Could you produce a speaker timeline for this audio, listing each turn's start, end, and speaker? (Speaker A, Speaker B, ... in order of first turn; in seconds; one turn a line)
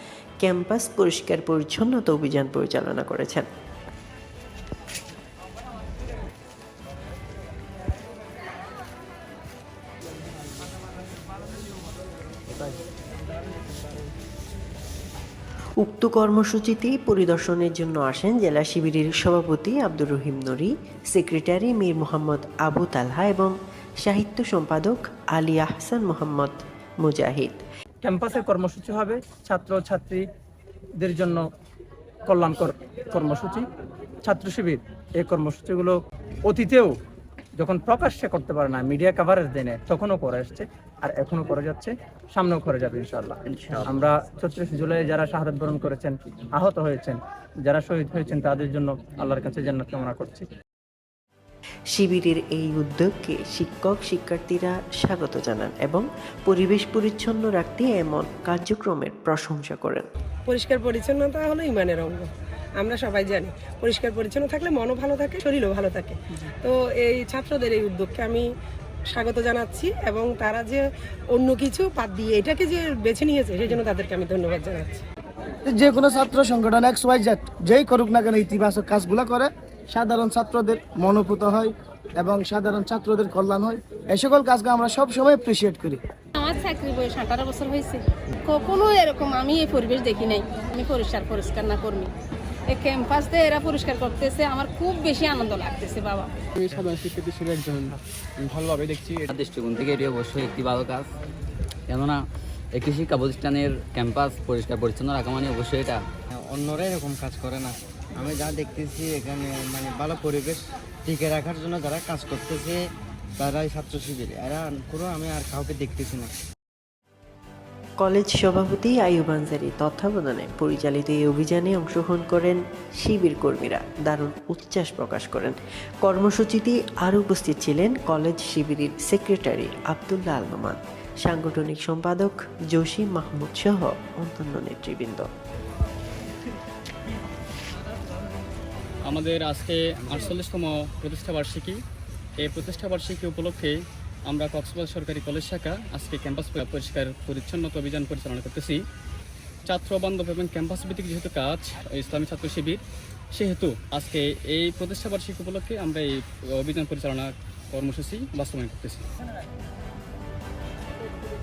Speaker A: 0.4-3.5
Speaker A: 15.8-27.6
Speaker B: 28.0-30.2
Speaker B: 31.0-31.4
Speaker B: 32.3-33.7
Speaker B: 34.2-36.9
Speaker B: 37.6-50.5
Speaker A: 51.9-60.1
Speaker C: 60.5-68.5
Speaker C: 69.1-75.0
Speaker D: 75.7-86.0
Speaker E: 86.3-92.1
Speaker E: 92.7-96.3
Speaker F: 99.2-101.1
Speaker F: 101.9-102.2
Speaker F: 102.7-106.0
Speaker G: 106.5-112.8
Speaker G: 113.4-116.3
Speaker A: 118.0-135.3
Speaker H: 139.1-141.8
Speaker H: 142.4-148.8
Speaker H: 149.7-152.8
Speaker H: 153.3-159.1